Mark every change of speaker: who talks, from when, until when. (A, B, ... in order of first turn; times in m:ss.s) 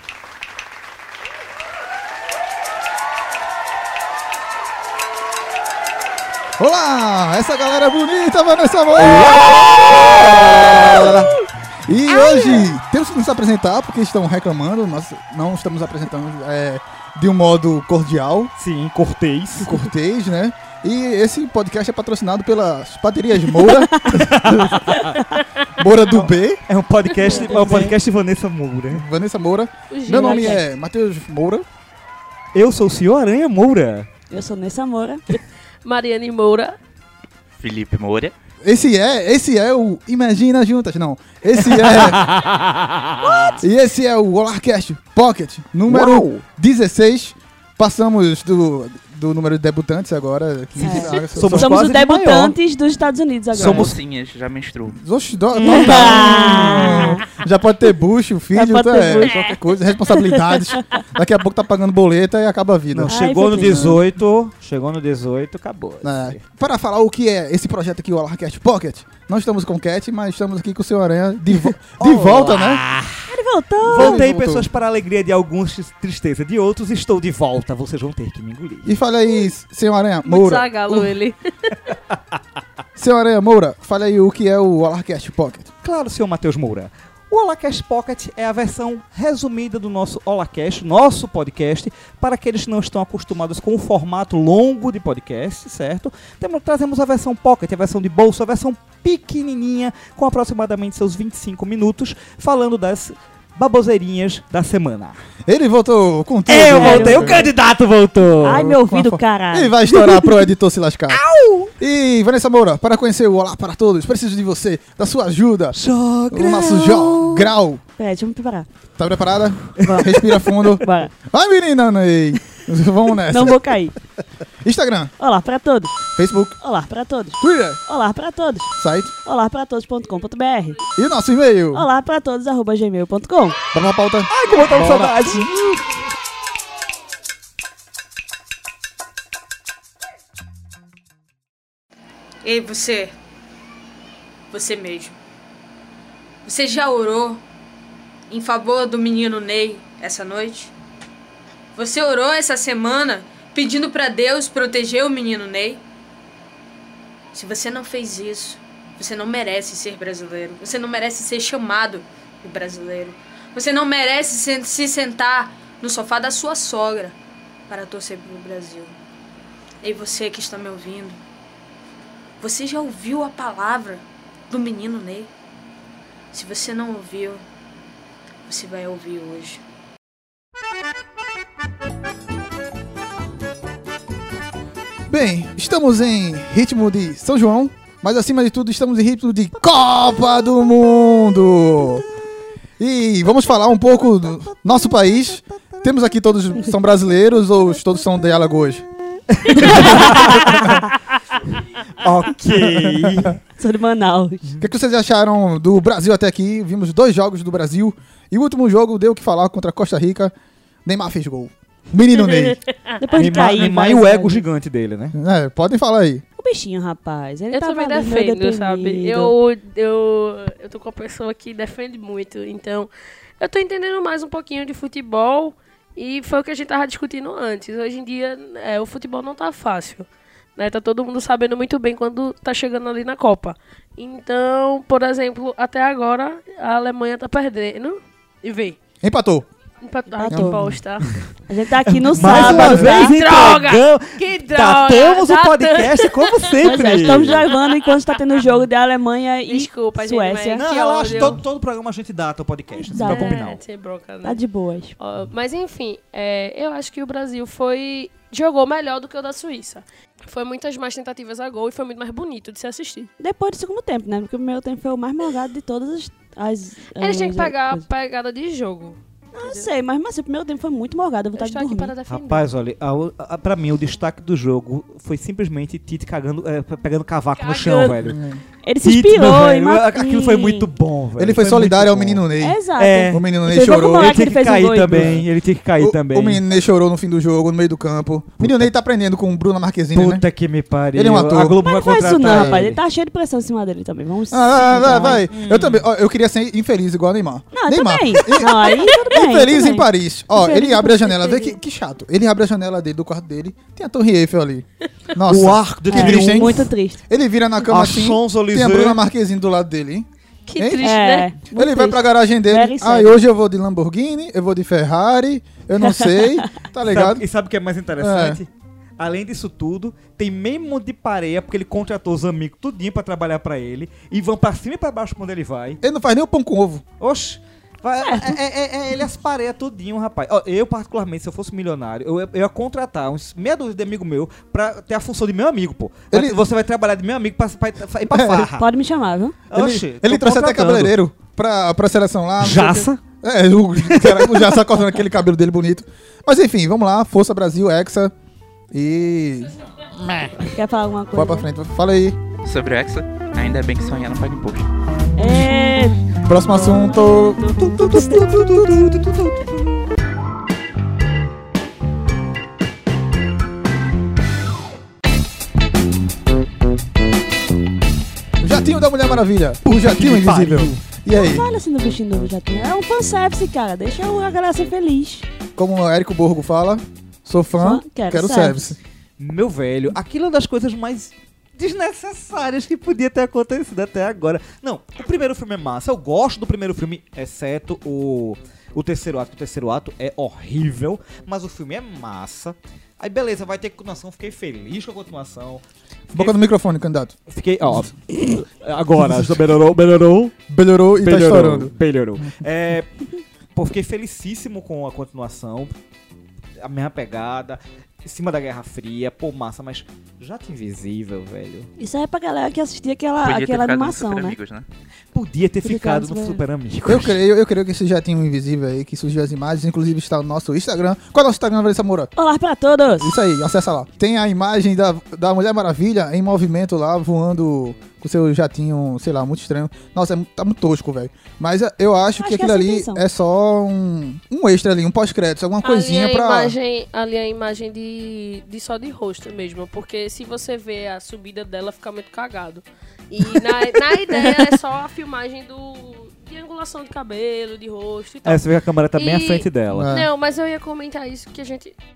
0:06.6-0:11.3 A
0:09.0-0:11.3 B
0:11.9-0:18.5 A
0:12.1-0:12.7 B
0:18.6-0:19.8 B
0:19.6-0:24.9 A
0:24.0-0:24.2 C
0:24.0-0:25.2 B
0:25.8-0:26.6 A
0:26.7-0:29.0 B
0:27.2-0:27.9 C
0:28.9-0:31.6 A
0:29.9-0:30.6 D
0:30.2-0:30.5 C
0:32.5-0:34.1 B
0:34.3-0:35.2 C
0:35.8-0:36.8 D
0:37.6-0:38.3 E
0:38.6-0:42.2 A
0:41.6-0:43.5 B
0:43.2-0:43.6 C
0:43.6-0:51.9 A
0:45.9-0:46.4 B
0:50.8-0:54.0 C
0:50.8-0:52.6 B
0:53.5-0:54.0 B
0:53.6-0:55.0 E
0:55.0-1:04.0 A
0:55.6-0:57.1 B
0:55.6-0:57.2 C
0:58.5-0:59.5 C
1:00.1-1:00.8 C
1:02.9-1:06.4 B
1:03.1-1:04.0 C
1:06.0-1:12.8 A
1:12.0-1:13.3 B
1:13.3-1:14.2 C
1:13.8-1:18.9 B
1:13.9-1:14.7 A
1:18.9-1:21.1 A
1:20.2-1:21.4 D
1:23.0-1:25.7 A
1:25.8-1:45.2 B
1:45.4-1:47.5 A
1:46.5-1:48.7 B
1:46.7-1:47.5 C
1:48.4-1:50.0 C
1:48.5-1:51.2 A
1:51.1-1:51.7 B
1:51.8-1:55.8 A
1:55.7-1:57.5 B
1:56.3-1:57.8 A
1:58.0-1:58.7 C
1:59.0-2:03.7 A
1:59.8-2:00.6 B
1:59.8-2:01.1 C
2:03.3-2:03.9 C
2:04.6-2:05.1 A
2:05.2-2:06.0 C
2:06.2-2:06.6 A
2:06.6-2:10.8 C
2:07.4-2:07.8 A
2:08.8-2:09.1 A
2:11.0-2:11.8 A
2:11.7-2:13.6 C
2:13.7-2:15.5 A
2:14.3-2:16.0 B
2:22.4-2:23.2 F
2:24.5-2:25.2 F
2:26.4-2:27.4 F
2:28.3-2:30.7 F
2:31.7-2:35.8 F
2:37.3-2:47.2 F
2:47.7-2:49.0 F
2:49.8-2:51.2 F
2:52.4-2:55.3 F
2:56.3-2:57.4 F
2:58.5-2:59.6 F
3:05.1-3:12.0 A
3:12.8-3:18.8 A
3:19.3-3:20.8 B
3:19.5-3:20.8 A
3:22.0-3:23.4 B
3:23.6-3:24.6 C
3:24.6-3:30.3 A
3:30.8-3:32.6 A
3:33.0-3:34.4 C
3:33.1-3:35.2 B
3:35.1-3:36.2 A
3:36.4-3:39.3 C
3:37.5-3:58.8 D
3:59.0-3:59.5 A
3:59.8-4:01.2 D
4:00.1-4:00.7 C
4:00.3-4:00.8 A
4:01.5-4:03.6 C
4:01.8-4:07.4 B
4:02.2-4:02.9 A
4:02.3-4:07.7 D
4:06.6-4:11.3 C
4:09.4-4:11.4 D
4:10.6-4:13.6 B
4:12.8-4:13.4 C
4:13.0-4:14.4 D
4:14.2-4:15.0 C
4:15.0-4:23.1 D
4:23.2-4:27.8 C
4:27.0-4:29.7 D
4:29.3-4:31.9 C
4:31.4-4:32.5 D
4:32.1-4:38.2 B
4:37.5-4:37.9 D
4:38.0-4:38.4 A
4:38.6-4:40.7 C
4:38.8-4:43.2 B
4:41.2-4:44.2 A
4:42.4-4:45.1 C
4:43.8-4:46.4 B
4:45.0-4:45.2 A
4:45.8-4:50.2 A
4:48.4-4:48.7 B
4:49.9-4:52.8 B
4:50.9-4:51.6 A
4:51.6-4:55.3 C
4:52.2-4:52.6 A
4:54.3-5:10.1 A
4:55.3-4:55.8 B
4:57.6-4:59.9 C
5:00.4-5:01.6 D
5:05.3-5:06.7 B
5:05.9-5:07.0 C
5:07.7-5:09.0 B
5:10.5-5:11.3 D
5:10.6-5:10.9 A
5:10.8-5:13.2 C
5:11.6-5:17.2 A
5:15.8-5:16.5 C
5:16.8-5:25.8 B
5:18.0-5:18.4 A
5:25.8-5:26.8 A
5:27.0-5:38.6 B
5:28.0-5:28.3 C
5:36.1-5:36.4 A
5:38.1-5:38.5 A
5:38.6-5:39.4 C
5:39.5-5:41.0 B
5:39.5-5:48.1 A
5:42.4-5:43.0 B
5:43.9-5:44.6 B
5:48.7-5:49.6 A
5:50.0-5:50.5 B
5:50.5-5:51.4 C
5:51.1-5:52.2 A
5:52.4-5:54.7 E
5:55.2-5:58.4 C
5:56.2-5:58.2 A
5:57.8-5:59.5 B
6:08.4-6:11.4 A
6:09.6-6:10.8 B
6:11.1-6:15.3 C
6:15.6-6:18.8 A
6:17.6-6:18.7 C
6:19.2-6:36.4 B
6:36.1-6:37.1 A
6:37.3-6:40.4 B
6:37.7-6:38.4 A
6:39.0-6:39.4 A
6:40.5-6:41.7 A
6:41.0-6:42.9 B
6:43.6-6:45.8 B
6:46.6-6:51.7 B
6:51.8-6:54.4 C
6:53.2-6:54.6 E
6:55.1-6:57.2 B
6:55.6-6:56.4 C
6:56.8-7:02.1 A
7:02.2-7:03.1 C
7:03.0-7:16.6 A
7:12.2-7:13.0 C
7:15.6-7:31.8 D
7:28.2-7:29.9 B
7:29.7-7:30.1 A